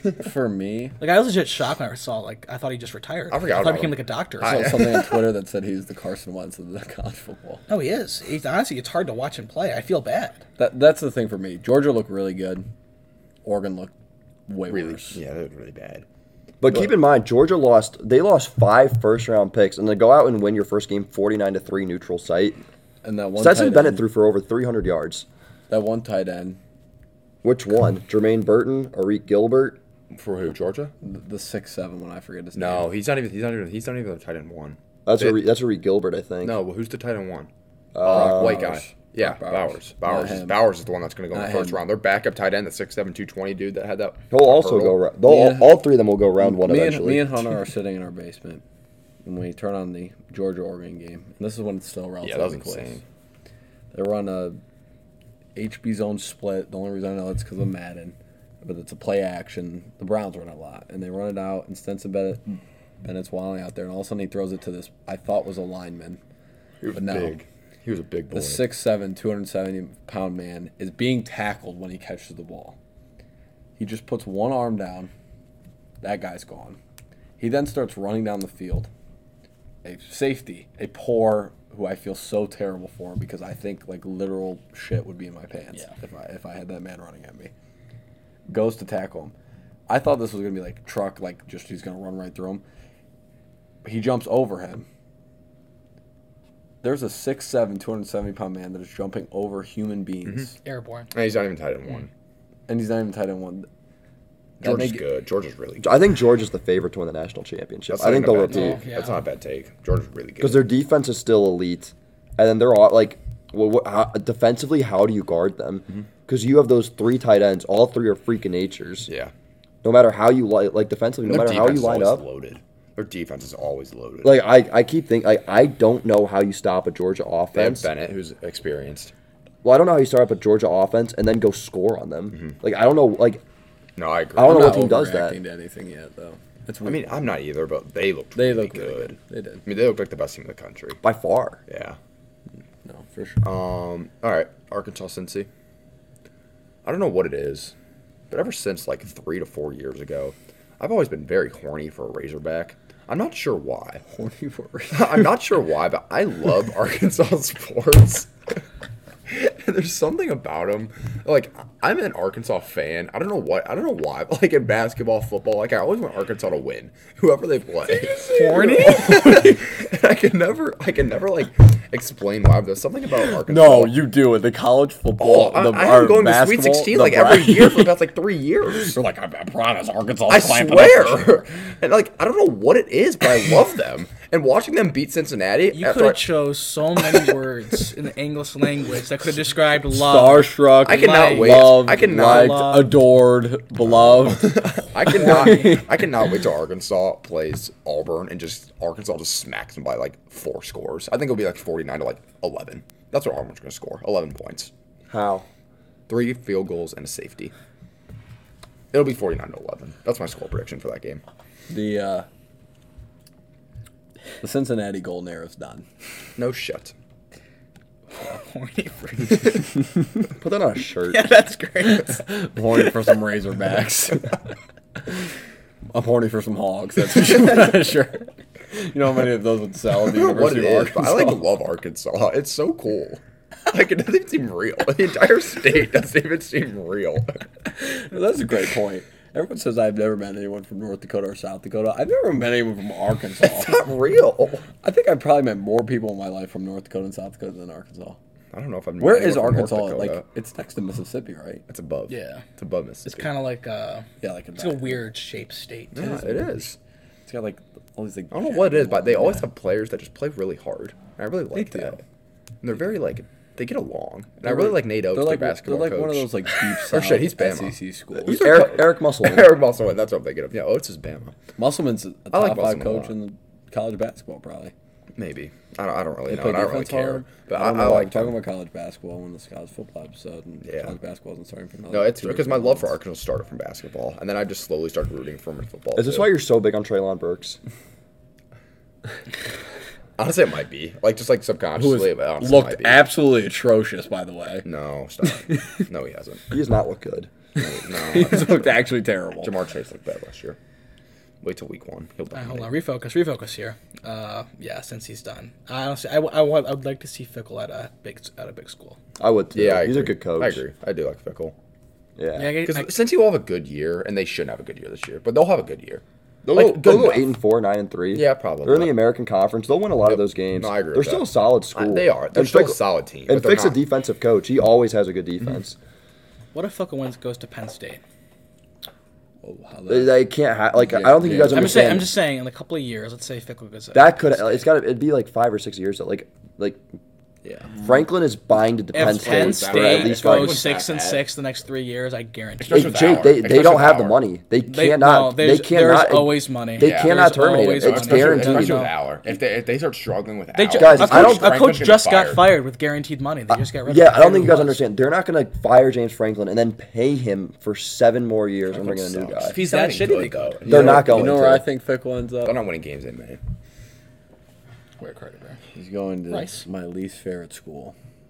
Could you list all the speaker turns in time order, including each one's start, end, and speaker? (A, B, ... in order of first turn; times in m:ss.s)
0:00.2-0:01.0 A
0:01.0-0:04.6 B
0:03.3-0:05.3 C
0:04.4-0:07.6 A
0:07.7-0:10.4 B
0:10.6-0:12.6 A
0:13.4-0:13.9 A
0:14.5-0:15.2 A
0:14.7-0:16.0 C
0:16.6-0:22.6 D
0:23.0-0:24.0 A
0:23.4-0:25.3 D
0:25.7-0:26.6 A
0:27.4-0:29.8 D
0:30.1-0:30.9 C
0:31.0-0:32.9 A
0:32.6-0:35.4 C
0:35.1-0:36.6 D
0:36.4-0:37.5 C
0:37.9-0:38.7 D
0:38.0-0:45.0 C
0:38.1-0:40.6 A
0:41.3-0:41.8 A
0:44.3-0:47.4 D
0:45.2-0:45.8 A
0:46.4-0:48.6 A
0:49.2-0:53.0 A
0:52.2-0:53.0 C
0:53.9-0:54.6 A
0:55.6-1:06.2 A
1:06.8-1:08.7 C
1:06.9-1:07.4 A
1:08.3-1:12.8 A
1:13.8-1:15.1 A
1:16.0-1:16.8 A
1:17.4-1:18.9 A
1:19.8-1:27.5 A
1:28.5-1:29.3 A
1:29.9-1:32.6 A
1:33.8-1:34.9 A
1:36.8-1:40.6 A
1:40.6-1:41.1 B
1:41.1-1:42.1 C
1:42.7-1:43.7 A
1:44.6-1:46.0 C
1:44.6-1:45.0 A
1:45.8-1:48.8 D
1:47.9-1:50.7 C
1:48.5-1:49.3 B
1:50.4-1:59.1 D
1:59.8-2:02.2 D
2:01.3-2:04.4 C
2:04.2-2:07.9 D
2:07.5-2:09.1 C
2:09.6-2:13.4 D
2:14.0-2:14.8 C
2:14.4-2:15.4 D
2:14.4-2:17.1 A
2:16.8-2:21.0 C
2:18.4-2:19.6 A
2:21.0-2:21.6 D
2:21.7-2:22.0 C
2:22.8-2:23.4 A
2:23.4-2:25.5 C
2:26.8-2:27.7 C
2:28.3-2:34.0 C
2:34.1-2:35.3 A
2:34.9-2:38.3 C
2:39.3-2:54.0 C
2:47.9-2:49.4 A
2:48.3-2:49.2 B
2:53.2-2:57.9 A
2:55.2-2:59.0 C
2:58.9-3:01.5 A
3:00.3-3:06.3 C
3:05.7-3:11.6 B
3:09.9-3:15.9 A
3:10.8-3:12.9 C
3:12.2-3:12.9 B
3:13.9-3:24.7 C
3:25.1-3:25.5 D
3:26.1-3:27.5 C
3:28.9-3:31.2 C
3:31.7-3:32.3 A
3:34.4-3:35.8 A
3:36.4-3:36.9 C
3:38.1-3:39.7 B
3:40.4-3:41.2 D
3:41.1-3:42.3 B
3:42.3-3:44.4 A
3:45.9-3:51.4 A
3:50.0-3:57.4 C
3:57.8-4:03.8 A
4:03.4-4:04.7 C
4:04.8-4:08.2 A
4:08.5-4:10.2 C
4:09.0-4:11.6 A
4:11.7-4:13.3 C
4:12.1-4:12.4 B
4:13.0-4:16.2 B
4:14.2-4:15.0 A
4:15.9-4:16.8 C
4:16.0-4:16.5 A
4:17.3-4:19.5 A
4:18.3-4:22.0 C
4:21.5-4:22.0 A
4:22.6-4:31.4 C
4:24.4-4:28.7 A
4:28.2-4:29.6 D
4:31.6-4:34.7 A
4:32.3-4:33.1 C
4:35.2-4:38.4 C
4:36.3-4:42.9 A
4:40.6-4:41.0 C
4:41.9-4:46.3 C
4:46.0-4:47.6 D
4:50.2-4:53.0 C
4:51.8-4:54.7 A
4:54.6-4:56.4 C
4:55.2-4:55.6 A
4:56.5-4:57.3 D
4:57.6-4:58.9 C
4:57.6-4:59.5 A
4:59.4-5:00.6 C
5:01.4-5:02.7 C
5:02.3-5:09.0 B
5:09.2-5:10.6 D
5:09.5-5:11.6 C
5:12.2-5:12.6 D
5:12.4-5:12.9 B
5:12.6-5:16.0 C
5:16.4-5:25.8 D
5:16.5-5:17.3 C
5:18.1-5:18.9 C
5:20.1-5:23.8 C
5:26.5-5:28.0 B
5:29.4-5:30.2 A
5:29.9-5:32.1 D
5:30.8-5:32.1 A
5:31.5-5:34.6 B
5:33.9-5:36.8 D
5:37.4-5:37.9 A
5:37.8-5:40.6 D
5:38.9-5:43.0 B
5:38.9-5:41.2 A
5:40.5-5:41.0 C
5:42.6-5:44.2 C
5:42.7-5:48.9 D
5:44.7-5:49.0 B
5:46.8-5:52.5 C
5:50.5-5:54.8 B
5:50.7-5:51.5 D
5:53.9-5:59.6 D
5:58.7-6:01.3 C
5:59.5-6:00.6 B
6:00.6-6:02.6 A
6:00.7-6:01.6 D
6:02.4-6:03.4 C
6:05.0-6:05.6 B
6:05.7-6:08.0 A
6:06.3-6:06.6 B